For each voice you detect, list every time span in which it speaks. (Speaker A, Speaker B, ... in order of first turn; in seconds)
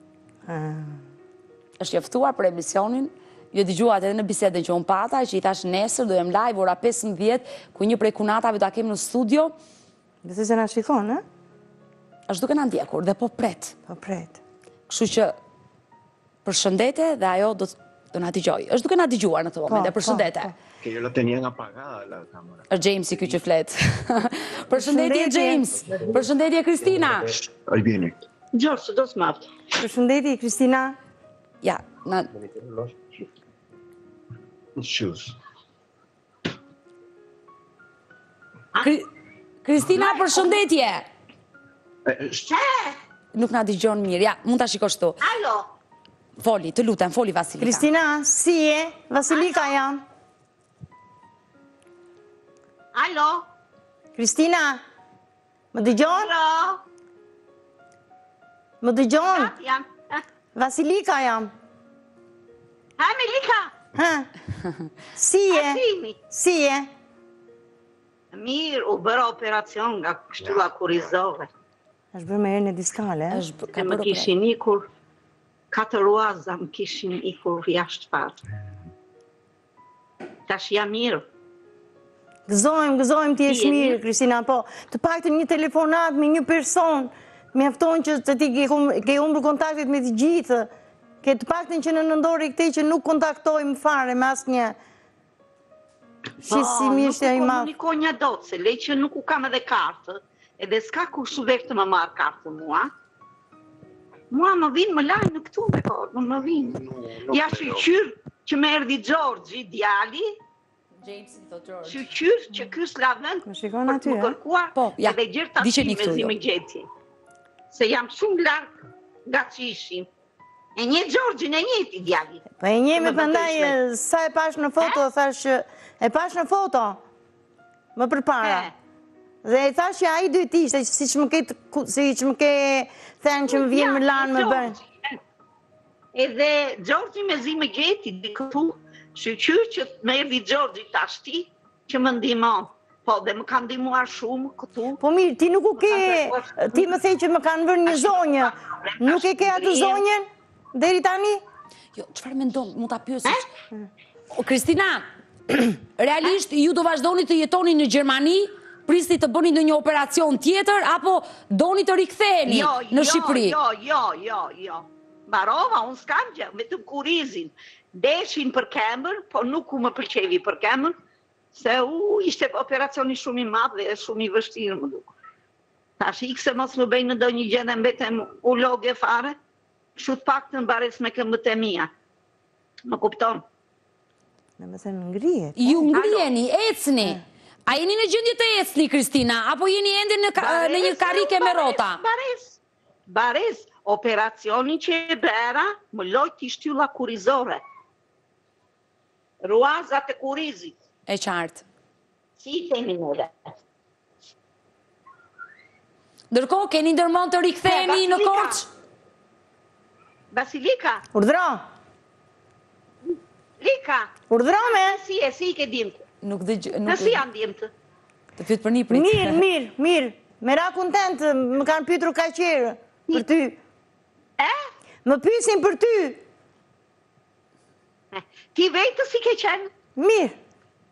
Speaker A: 0.5-1.0, 10.2-11.2, 13.9-14.4, 19.7-20.5, 24.7-25.7, 29.8-31.0, 47.6-50.0, 54.2-54.8, 55.7-56.3, 58.8-59.5, 60.5-61.5, 64.0-64.3, 65.2-66.9, 72.1-73.4, 82.5-90.7, 91.2-94.8, 96.5-97.7, 113.5-114.4, 122.6-127.0, 128.0-128.7, 129.4-134.8, 145.0-151.4, 184.6-185.9, 211.1-211.6, 214.3-215.0, 218.9-223.6, 225.1-226.2, 230.0-230.3
Speaker B: 1.8-9.5, 12.3-13.8, 14.9-15.3, 16.4-20.5, 22.7-27.3, 31.6-32.3, 38.8-39.1, 39.6-41.1, 43.3-45.2, 46.4-47.9, 73.3-74.3, 111.0-112.1, 114.8-116.3, 151.9-153.4, 154.3-163.6, 185.6-192.0, 201.1-201.7, 206.3-208.7, 216.2-217.2, 218.4-219.4
Speaker C: 20.8-22.7, 27.0-28.2, 32.4-33.0, 34.8-35.4, 42.1-42.5, 106.8-107.9
Speaker D: 28.5-29.5, 39.9-40.6, 42.5-43.0, 45.2-45.7, 49.3-49.9, 52.9-53.5, 56.0-56.8, 59.3-60.2, 63.0-63.8, 65.5-66.2, 68.3-71.5, 73.7-74.9, 75.7-78.4, 80.5-81.2, 83.5-84.0, 96.5-102.9, 104.3-110.4, 111.9-116.9, 117.7-120.1, 120.8-122.4, 123.0-123.8, 128.4-128.7, 133.5-135.2, 136.1-145.0, 145.8-146.9, 147.8-150.0, 162.5-170.9, 171.5-175.1, 176.0-179.4, 180.0-181.9, 182.8-183.4, 185.9-186.3, 190.4-197.6, 199.4-200.7, 202.4-203.5, 207.6-208.7, 210.3-211.0, 213.6-216.0, 216.9-217.7, 224.4-224.7, 228.1-229.7